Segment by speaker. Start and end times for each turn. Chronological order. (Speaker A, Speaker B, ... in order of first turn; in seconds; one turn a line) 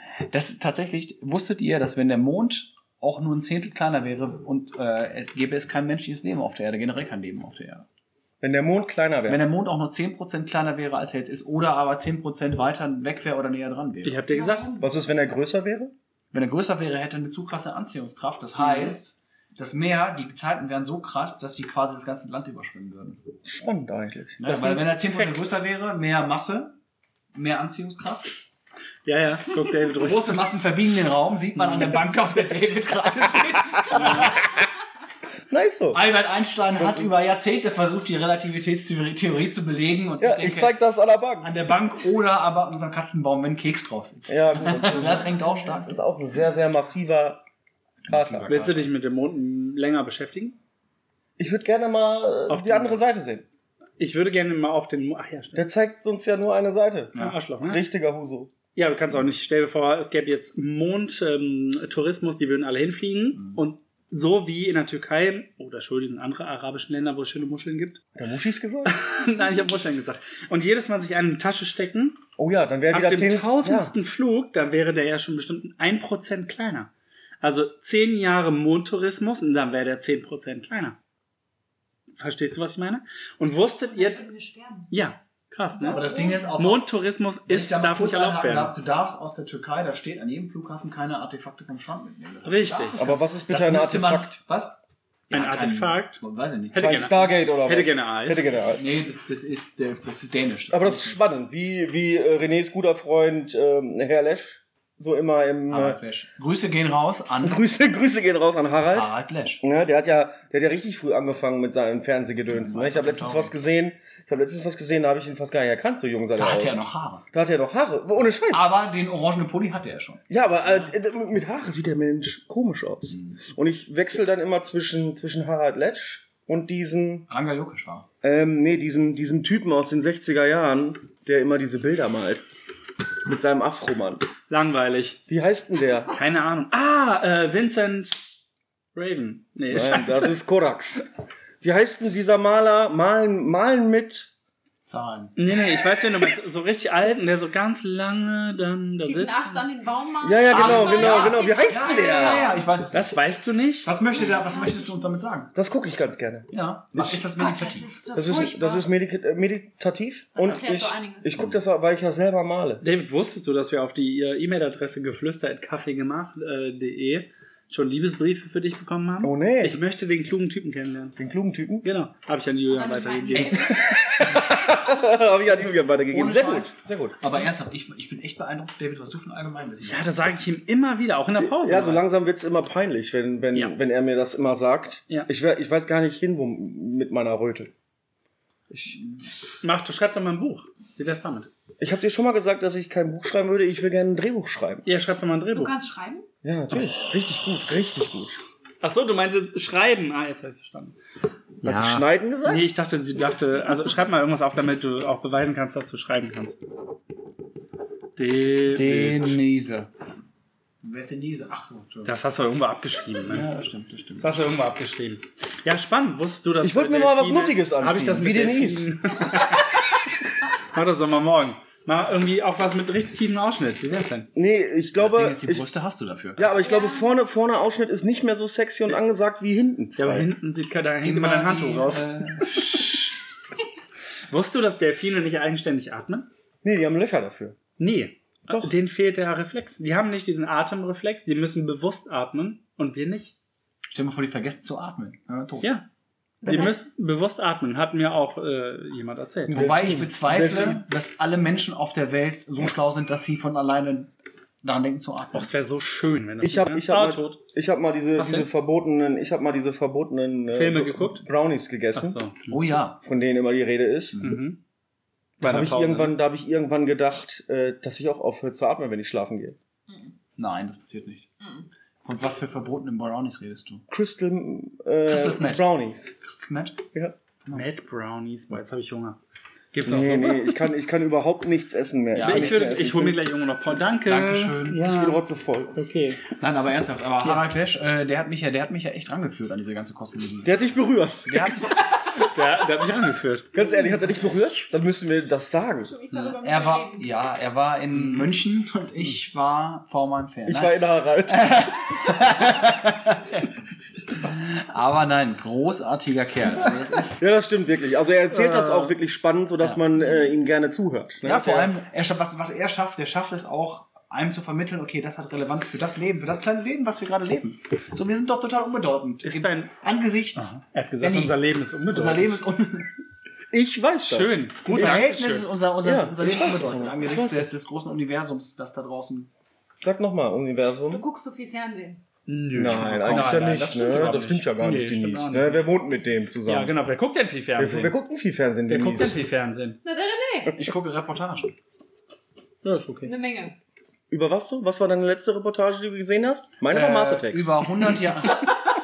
Speaker A: 0.3-7.9
Speaker B: 8.4-9.4
Speaker A: 9.3-14.2
Speaker C: 14.0-14.7
Speaker D: 14.3-14.9
Speaker B: 14.8-15.9
Speaker A: 16.3-23.2
Speaker B: 18.6-18.9
Speaker B: 23.4-24.4
Speaker A: 24.4-26.8
Speaker C: 24.5-25.6
Speaker A: 27.3-28.4
Speaker C: 29.1-30.4
Speaker A: 30.0-34.5
Speaker B: 35.5-36.0
Speaker A: 35.9-40.7
Speaker B: 36.8-37.1
Speaker B: 40.2-41.5
Speaker A: 41.4-46.0
Speaker B: 44.3-47.4
Speaker A: 48.0-48.9
Speaker B: 48.1-48.5
Speaker C: 48.5-50.6
Speaker B: 51.4-53.5
Speaker C: 52.5-53.0
Speaker C: 54.0-55.6
Speaker B: 55.6-58.5
Speaker C: 57.2-57.8
Speaker C: 58.8-68.0
Speaker B: 68.2-69.0
Speaker C: 68.8-72.2
Speaker B: 72.4-73.9
Speaker C: 72.9-81.0
Speaker C: 82.2-84.2
Speaker D: 83.9-84.9
Speaker C: 84.9-88.8
Speaker D: 85.8-86.5
Speaker A: 85.9-86.9
Speaker A: 87.5-94.8
Speaker C: 92.4-93.1
Speaker B: 93.0-94.4
Speaker A: 95.3-97.3
Speaker C: 95.3-96.2
Speaker C: 96.7-98.5
Speaker B: 96.8-98.9
Speaker A: 98.8-101.2
Speaker B: 100.7-106.0
Speaker A: 105.7-107.6
Speaker B: 107.4-118.7
Speaker A: 108.9-109.6
Speaker A: 112.5-113.5
Speaker A: 116.4-117.2
Speaker A: 118.5-120.2
Speaker B: 120.3-127.3
Speaker A: 123.1-123.4
Speaker A: 127.3-128.1
Speaker B: 128.2-132.4
Speaker B: 133.2-134.3
Speaker C: 134.5-135.2
Speaker B: 135.3-136.1
Speaker C: 136.1-138.2
Speaker C: 138.9-140.4
Speaker B: 139.7-141.1
Speaker B: 141.6-144.3
Speaker A: 144.8-145.4
Speaker C: 145.4-149.7
Speaker D: 149.1-152.7
Speaker B: 150.2-152.5
Speaker A: 150.5-153.2
Speaker C: 152.9-153.9
Speaker A: 153.8-155.5
Speaker D: 154.1-155.2
Speaker B: 155.5-157.3
Speaker A: 156.5-158.1
Speaker D: 157.4-158.9
Speaker B: 158.1-162.8
Speaker D: 160.3-161.5
Speaker C: 162.8-171.2
Speaker B: 169.2-169.8
Speaker B: 171.2-171.9
Speaker C: 171.8-173.6
Speaker D: 172.7-173.9
Speaker B: 173.7-177.2
Speaker A: 176.1-180.2
Speaker C: 179.8-182.0
Speaker B: 181.4-187.7
Speaker B: 188.7-189.0
Speaker C: 189.6-191.5
Speaker B: 191.8-194.9
Speaker C: 194.8-195.7
Speaker D: 195.5-196.3
Speaker B: 196.4-198.4
Speaker C: 198.8-201.0
Speaker B: 201.6-202.7
Speaker A: 201.6-202.0
Speaker C: 201.7-206.6
Speaker C: 208.2-209.4
Speaker A: 208.7-209.9
Speaker A: 210.8-212.2
Speaker C: 212.1-213.5
Speaker A: 213.3-214.5
Speaker C: 214.2-219.8
Speaker B: 216.6-218.9
Speaker C: 220.7-224.3
Speaker B: 224.3-225.6
Speaker A: 225.0-226.5
Speaker B: 226.4-230.3
Speaker D: 226.6-227.1
Speaker C: 230.0-232.9
Speaker A: 231.0-233.2
Speaker C: 234.3-236.3
Speaker B: 236.6-237.6
Speaker C: 237.8-243.3
Speaker A: 243.9-245.7
Speaker C: 245.6-245.9
Speaker D: 246.4-246.8
Speaker C: 246.4-249.8
Speaker B: 246.5-246.7
Speaker B: 249.5-250.8
Speaker A: 249.5-254.1
Speaker A: 254.6-255.5
Speaker C: 255.3-257.4
Speaker B: 256.4-262.2
Speaker C: 258.2-258.5
Speaker C: 260.5-261.2
Speaker C: 261.9-262.6
Speaker A: 262.5-263.0
Speaker B: 263.0-264.3
Speaker C: 264.2-264.6
Speaker C: 265.4-266.1
Speaker B: 265.4-269.6
Speaker D: 269.9-270.1
Speaker A: 270.4-271.3
Speaker D: 271.4-271.7
Speaker A: 272.0-273.8
Speaker B: 273.9-276.1
Speaker A: 275.1-275.7
Speaker A: 276.2-276.8
Speaker C: 277.5-279.2
Speaker C: 279.7-280.6
Speaker B: 279.8-283.2
Speaker A: 282.1-282.8
Speaker C: 282.2-285.2
Speaker A: 284.1-284.8
Speaker B: 284.8-285.8
Speaker C: 285.7-286.2
Speaker A: 286.3-290.7
Speaker B: 290.4-291.8
Speaker A: 291.3-291.8
Speaker C: 292.2-293.5
Speaker B: 293.5-295.9
Speaker D: 295.9-297.1
Speaker A: 296.2-303.5
Speaker B: 300.5-301.9
Speaker A: 304.1-307.2
Speaker B: 307.2-311.7
Speaker C: 308.3-308.9
Speaker A: 311.2-322.9
Speaker C: 319.2-319.7
Speaker C: 320.4-322.4
Speaker B: 323.5-325.0
Speaker C: 324.1-325.5
Speaker A: 324.6-329.3
Speaker B: 325.8-327.5
Speaker B: 329.8-331.0
Speaker D: 330.9-332.0
Speaker C: 332.3-335.7
Speaker B: 332.5-336.7
Speaker A: 333.0-333.5
Speaker C: 336.4-337.9
Speaker B: 337.6-339.2
Speaker C: 338.7-339.8
Speaker D: 339.8-340.6
Speaker A: 340.5-341.6
Speaker C: 342.6-343.1
Speaker D: 343.1-343.6
Speaker B: 344.1-347.6
Speaker A: 346.7-348.5